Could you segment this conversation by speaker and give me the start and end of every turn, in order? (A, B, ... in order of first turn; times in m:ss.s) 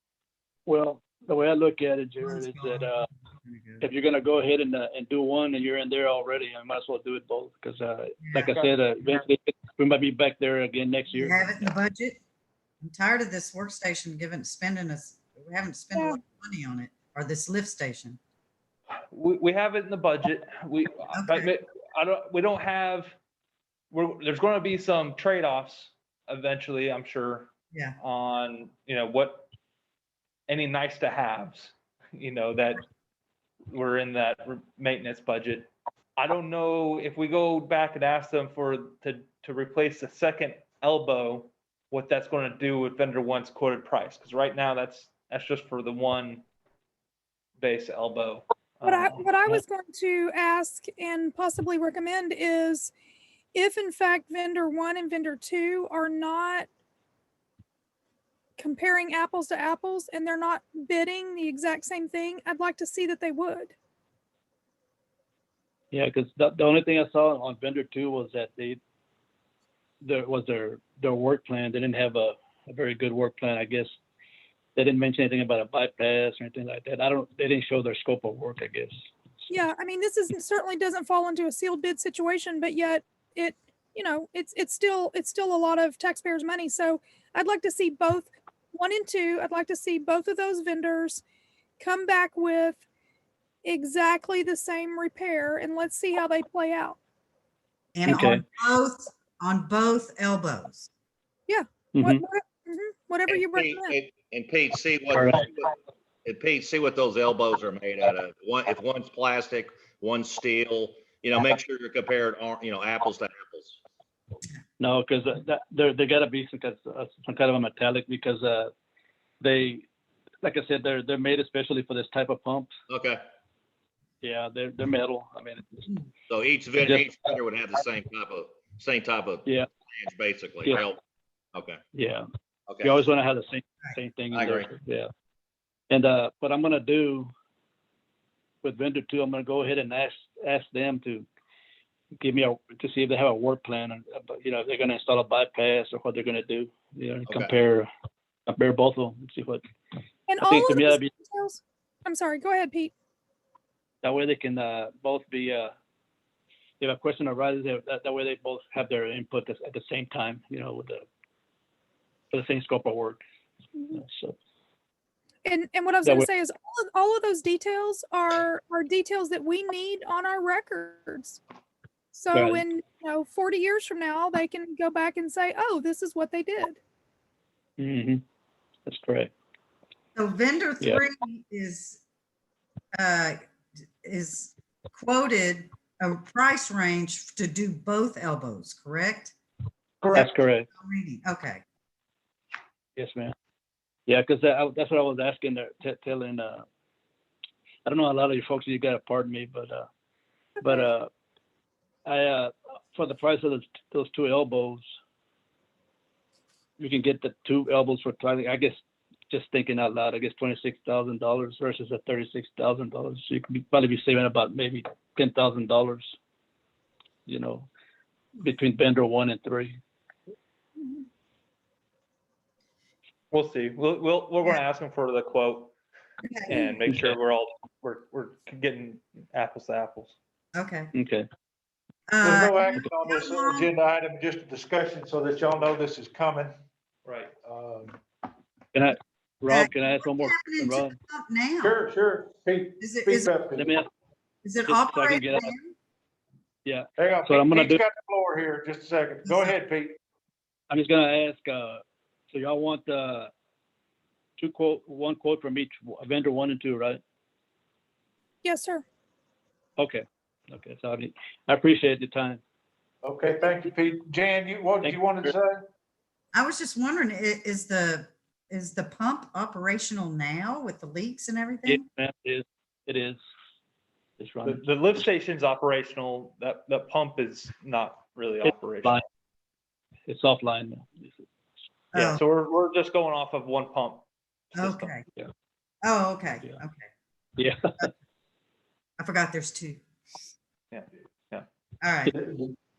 0:00.7-0:03.1 A
0:02.2-0:03.8 B
0:03.8-0:11.7 A
0:08.2-0:08.7 B
0:11.1-0:12.2 B
0:12.8-0:18.2 B
0:19.1-0:23.2 C
0:21.1-0:21.5 B
0:23.9-0:29.5 C
0:30.5-0:32.8 C
0:33.7-0:46.4 C
0:47.6-0:49.6 C
0:48.8-0:52.9 D
0:53.5-0:56.7 D
0:58.6-1:03.7 D
1:05.9-1:08.8 A
1:10.0-1:13.9 A
1:14.8-1:18.9 A
1:19.5-1:31.2 D
1:31.8-1:32.8 D
1:33.6-1:37.0 D
1:37.9-1:40.9 B
1:38.0-1:38.4 A
1:41.5-1:43.9 D
1:41.9-1:42.2 A
1:43.3-1:45.7 E
1:45.1-1:45.5 A
1:46.2-1:53.8 E
1:54.8-1:58.7 A
1:59.4-1:59.8 A
2:00.4-2:02.8 A
2:02.9-2:03.2 E
2:04.2-2:05.9 A
2:06.3-2:11.0 E
2:06.8-2:07.2 A
2:10.6-2:10.9 A
2:11.5-2:11.8 E
2:11.9-2:12.2 A
2:12.7-2:13.1 E
2:12.8-2:15.1 A
2:14.3-2:14.7 E
2:15.9-2:17.3 A
2:18.6-2:21.2 A
2:22.2-2:27.9 A
2:27.3-2:27.5 E
2:28.5-2:29.6 A
2:30.3-2:32.9 D
2:30.4-2:31.1 A
2:34.0-2:35.7 A
2:36.8-2:41.0 A
2:42.3-2:43.2 A
2:43.8-2:44.0 D
2:43.9-2:44.3 A
2:45.4-2:51.4 D
2:52.1-2:56.8 D
2:52.3-2:52.6 A
2:57.8-2:58.2 A
2:58.8-2:59.3 A
3:00.2-3:02.0 B
3:02.9-3:03.5 B
3:04.0-3:09.3 B
3:10.0-3:10.3 F
3:10.1-3:11.6 B
3:10.1-3:10.7 A
3:13.0-3:13.3 A
3:14.1-3:16.6 A
3:17.8-3:19.8 A
3:20.6-3:21.1 A
3:22.0-3:24.8 A
3:26.8-3:28.8 A
3:29.3-3:36.1 A
3:37.3-3:37.7 A
3:38.4-3:39.7 A
3:43.3-3:45.7 C
3:46.2-3:46.8 B
3:46.5-3:50.2 C
3:46.9-3:47.2 A
3:50.5-3:50.9 B
3:50.9-3:51.2 A
3:52.1-3:53.7 B
3:52.2-3:56.5 F
3:57.0-3:57.3 C
3:57.4-3:58.0 F
3:58.7-4:01.0 A
3:59.5-4:01.8 B
4:01.6-4:03.8 F
4:02.8-4:03.3 B
4:03.5-4:03.9 A
4:04.4-4:05.7 B
4:04.7-4:05.5 A
4:06.6-4:07.8 A
4:07.0-4:10.0 F
4:09.2-4:09.5 B
4:10.7-4:13.3 A
4:14.4-4:17.0 A
4:18.4-4:18.8 D
4:19.8-4:22.4 A
4:23.0-4:25.6 F
4:24.8-4:25.3 A
4:26.3-4:31.8 B
4:31.6-4:33.2 A
4:34.2-4:34.6 A
4:34.4-4:39.0 C
4:38.4-4:39.0 A
4:40.1-4:41.1 A
4:41.9-4:42.2 B
4:41.9-4:44.9 C
4:44.6-4:45.0 B
4:45.8-4:46.9 B
4:47.4-4:47.9 A
4:49.0-4:49.8 B
4:50.7-4:51.4 C
4:51.8-4:52.1 B
4:52.1-4:52.6 F